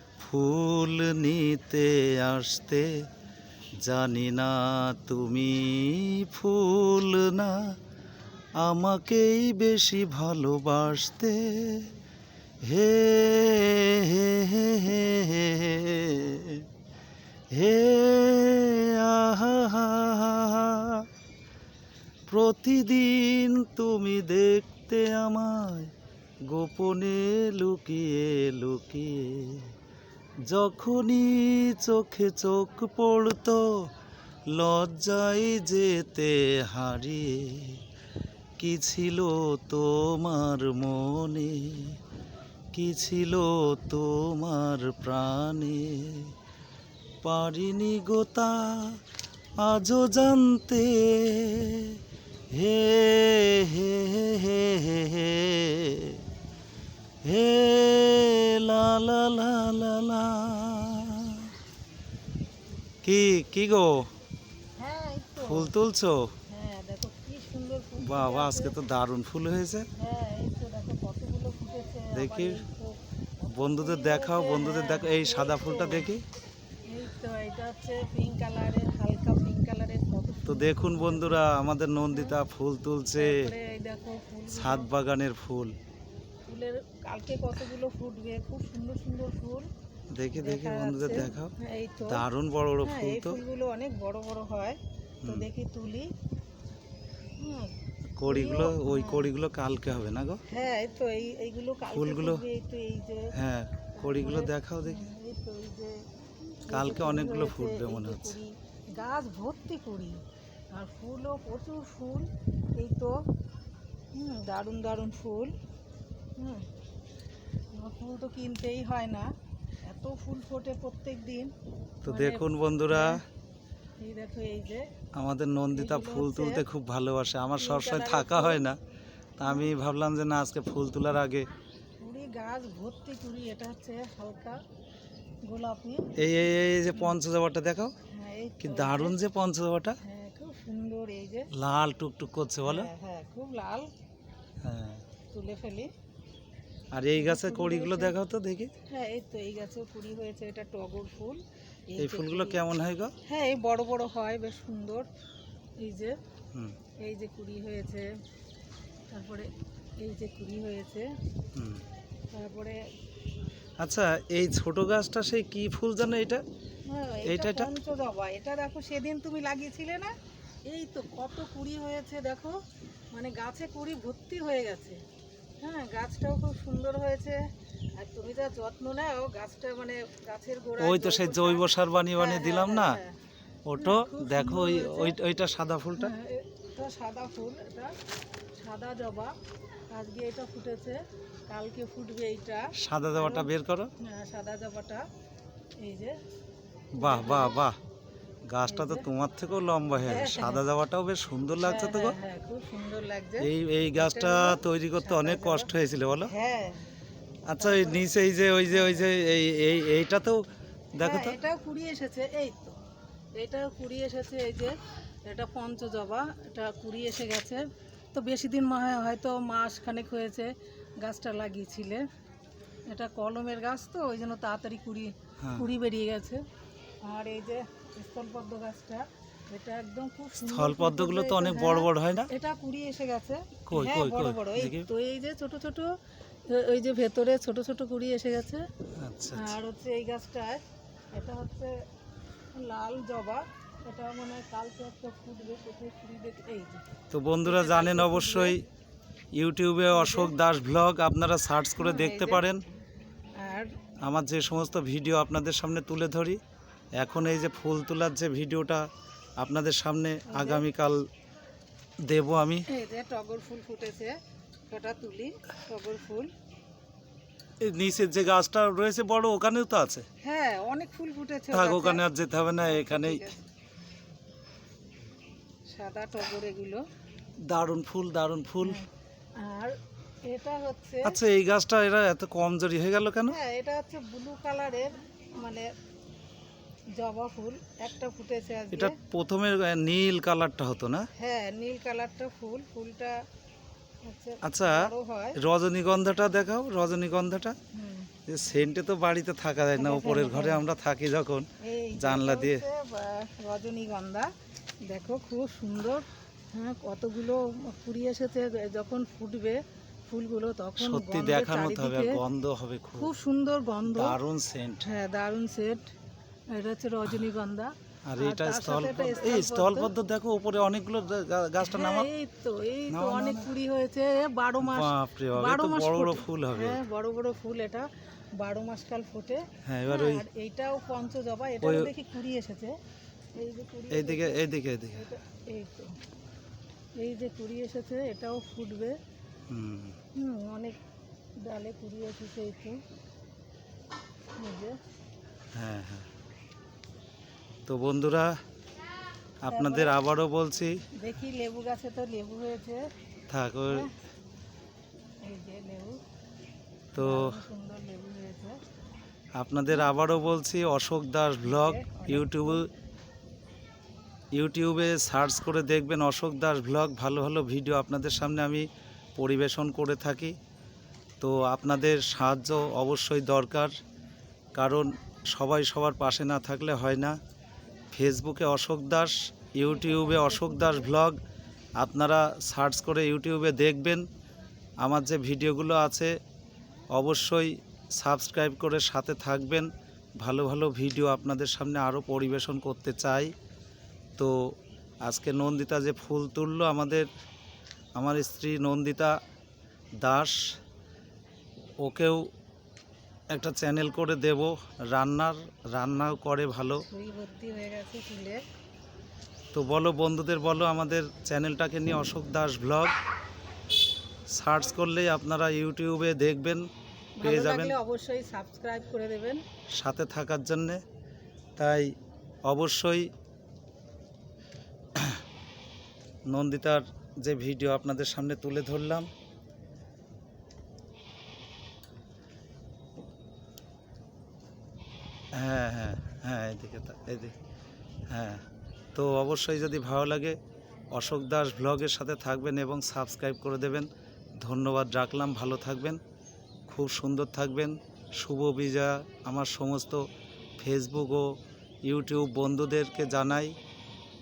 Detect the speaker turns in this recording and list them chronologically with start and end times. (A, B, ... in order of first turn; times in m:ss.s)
0:00.2-0:02.9 A
0:03.8-0:07.7 A
0:08.6-0:11.9 A
0:12.6-0:16.6 A
0:17.5-0:21.0 A
0:22.3-0:25.9 A
0:26.5-0:29.7 A
0:30.5-0:33.7 A
0:34.5-0:37.8 A
0:38.6-0:42.0 A
0:42.7-0:46.3 A
0:47.2-0:49.0 A
0:49.6-0:52.0 A
0:52.5-0:56.2 A
0:57.2-1:01.5 A
1:03.0-1:04.1 A
1:04.8-1:05.7 B
1:05.4-1:06.3 A
1:06.5-1:08.7 B
1:08.0-1:09.9 A
1:10.0-1:13.0 B
1:12.2-1:12.6 A
1:13.4-1:16.2 A
1:13.8-1:16.1 B
1:16.9-1:21.4 B
1:20.5-1:23.5 A
1:23.2-1:24.9 B
1:24.5-1:25.7 A
1:26.5-1:29.7 B
1:30.1-1:31.5 A
1:30.4-1:32.2 B
1:32.0-1:33.4 A
1:32.8-1:36.1 B
1:37.4-1:37.7 B
1:38.2-1:40.4 A
1:38.3-1:39.3 B
1:40.5-1:43.3 B
1:41.9-1:42.4 A
1:43.3-1:45.0 A
1:44.0-1:46.0 B
1:46.7-1:50.2 B
1:46.7-1:48.4 A
1:50.7-1:53.2 B
1:54.1-1:55.5 B
1:56.4-1:56.7 B
1:57.7-1:59.3 B
1:59.9-2:01.5 B
2:02.0-2:03.2 A
2:02.1-2:03.2 B
2:04.0-2:04.8 B
2:05.2-2:08.8 A
2:05.8-2:06.6 B
2:07.6-2:08.7 B
2:09.4-2:11.5 A
2:12.0-2:14.6 B
2:15.5-2:16.1 B
2:16.2-2:17.9 A
2:18.1-2:19.2 B
2:18.6-2:20.0 A
2:20.0-2:21.5 B
2:21.5-2:22.9 A
2:22.6-2:23.9 B
2:24.6-2:25.0 A
2:25.3-2:25.9 B
2:26.9-2:28.7 A
2:27.2-2:28.2 B
2:28.9-2:31.4 B
2:31.9-2:32.6 B
2:32.0-2:33.1 A
2:33.3-2:35.1 B
2:35.8-2:36.2 B
2:37.0-2:38.1 B
2:39.1-2:39.5 B
2:40.0-2:41.1 B
2:41.6-2:41.8 A
2:42.3-2:42.8 B
2:43.8-2:46.4 A
2:46.9-2:50.1 B
2:47.2-2:47.7 A
2:50.7-2:52.6 B
2:53.1-2:55.0 B
2:55.6-2:57.4 B
2:58.0-3:03.2 B
3:00.8-3:03.0 A
3:03.6-3:06.1 A
3:03.8-3:05.2 B
3:06.0-3:08.0 B
3:08.6-3:09.4 B
3:09.9-3:13.5 B
3:12.8-3:13.9 A
3:14.0-3:15.1 B
3:15.8-3:16.2 B
3:17.0-3:17.8 A
3:17.0-3:17.6 B
3:18.5-3:22.2 A
3:18.7-3:19.0 B
3:20.0-3:20.6 B
3:21.6-3:25.7 B
3:23.4-3:26.3 A
3:26.3-3:26.8 B
3:27.5-3:31.4 A
3:27.6-3:28.0 B
3:28.7-3:29.0 B
3:31.0-3:32.8 B
3:33.4-3:42.0 B
3:42.9-3:46.4 B
3:45.4-3:45.7 A
3:47.0-3:55.9 B
3:50.4-3:52.3 A
3:53.7-3:54.9 A
3:56.5-3:58.6 B
3:59.0-3:59.6 A
3:59.3-4:00.6 B
4:01.2-4:01.8 B
4:02.5-4:06.8 B
4:07.1-4:08.6 A
4:07.4-4:08.6 B
4:09.3-4:12.6 A
4:09.9-4:10.3 B
4:11.8-4:12.5 B
4:13.4-4:13.7 B
4:14.0-4:16.4 A
4:17.0-4:18.9 A
4:19.4-4:21.1 A
4:20.3-4:20.7 B
4:22.0-4:22.7 A
4:22.7-4:24.2 B
4:24.7-4:26.3 B
4:27.6-4:30.1 A
4:30.2-4:32.0 B
4:31.5-4:33.3 A
4:32.6-4:33.4 B
4:35.7-4:36.8 B
4:37.4-4:38.8 A
4:39.4-4:41.2 B
4:41.0-4:43.4 A
4:43.3-4:45.7 B
4:47.0-4:49.0 B
4:48.7-4:51.1 A
4:51.2-4:53.2 B
4:54.0-4:55.4 B
4:54.4-4:57.6 A
4:57.7-4:58.1 B
4:58.3-5:01.5 A
4:59.8-5:00.6 B
5:01.6-5:04.3 B
5:02.0-5:02.6 A
5:04.9-5:12.2 B
5:10.8-5:13.1 A
5:13.0-5:14.2 B
5:13.8-5:14.9 A
5:14.8-5:15.9 B
5:16.5-5:19.9 B
5:18.0-5:22.1 A
5:21.6-5:32.8 B
5:22.9-5:23.5 A
5:24.6-5:26.8 A
5:29.6-5:30.2 A
5:31.6-5:31.9 A
5:33.4-5:34.4 B
5:33.9-5:35.0 A
5:35.0-5:35.9 B
5:37.0-5:39.0 B
5:39.5-5:40.0 A
5:40.2-5:40.8 B
5:41.4-5:42.8 B
5:44.4-5:44.8 B
5:45.5-5:46.1 A
5:47.7-5:48.4 A
5:49.4-5:50.8 A
5:49.5-5:50.0 B
5:51.0-5:52.8 B
5:53.3-5:53.9 A
5:55.2-5:56.0 B
5:56.9-5:57.4 A
5:57.0-5:58.6 B
5:59.4-6:02.7 A
6:01.4-6:02.6 B
6:04.4-6:10.4 A
6:11.2-6:13.7 A
6:14.6-6:17.2 A
6:17.9-6:21.2 A
6:19.6-6:20.9 B
6:21.8-6:24.0 A
6:24.8-6:26.1 A
6:26.9-6:29.7 A
6:30.2-6:33.3 A
6:35.0-6:37.1 A
6:38.0-6:39.2 A
6:40.0-6:40.4 A
6:41.8-6:42.3 A
6:43.3-6:46.8 A
6:46.8-6:48.4 B
6:49.5-6:52.9 A
6:54.3-6:56.7 A
6:57.2-6:59.4 B
6:57.2-6:57.8 A
6:59.8-7:00.8 A
7:01.6-7:01.9 A
7:02.5-7:03.1 A
7:06.3-7:09.1 A
7:15.3-7:17.4 A
7:18.1-7:18.4 A
7:19.0-7:20.4 A
7:20.9-7:23.9 A
7:24.4-7:26.0 A
7:26.7-7:30.0 A
7:30.6-7:31.3 A
7:31.8-7:33.5 A